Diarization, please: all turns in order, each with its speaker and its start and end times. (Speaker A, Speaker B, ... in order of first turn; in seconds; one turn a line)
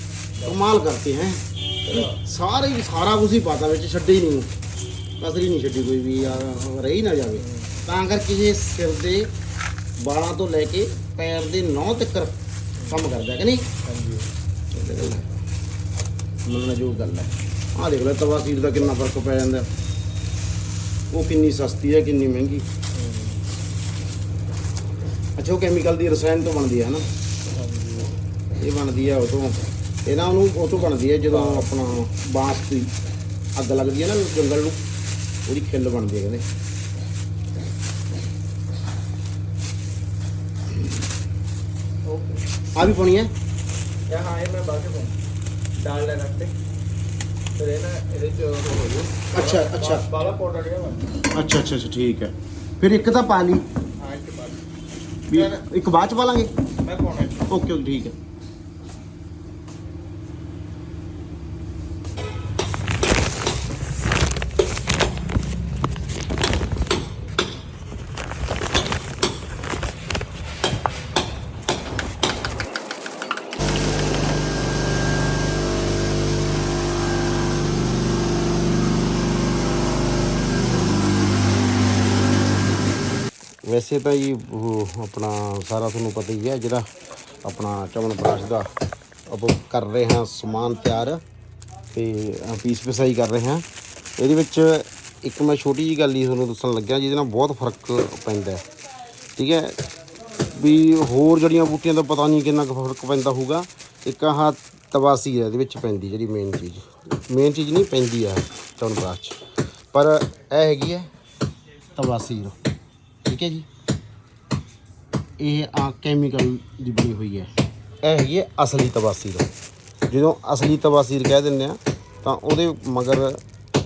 Speaker A: 0.4-4.5
Speaker B: 1.9-2.1
Speaker A: 5.2-9.3
Speaker B: 7.4-7.8
Speaker A: 10.0-13.6
Speaker B: 12.8-13.1
Speaker B: 13.8-14.3
Speaker A: 14.7-15.3
Speaker A: 16.5-19.7
Speaker A: 21.1-22.6
Speaker B: 22.9-23.4
Speaker A: 25.4-27.1
Speaker B: 27.5-28.1
Speaker A: 28.6-32.9
Speaker B: 31.3-31.7
Speaker A: 33.6-34.8
Speaker A: 35.5-36.5
Speaker B: 42.0-42.5
Speaker A: 42.8-43.3
Speaker B: 44.1-45.1
Speaker B: 45.8-46.6
Speaker B: 47.6-51.1
Speaker A: 49.3-50.0
Speaker A: 51.3-53.6
Speaker B: 54.0-54.6
Speaker A: 55.3-56.5
Speaker B: 56.8-57.5
Speaker A: 57.5-58.1
Speaker A: 83.6-86.9
Speaker A: 87.4-88.7
Speaker A: 89.3-91.2
Speaker A: 91.9-93.7
Speaker A: 94.2-98.6
Speaker A: 99.4-99.8
Speaker A: 100.5-111.1
Speaker A: 112.0-112.6
Speaker A: 113.3-113.7
Speaker A: 115.4-117.5
Speaker A: 118.0-119.5
Speaker A: 120.1-123.4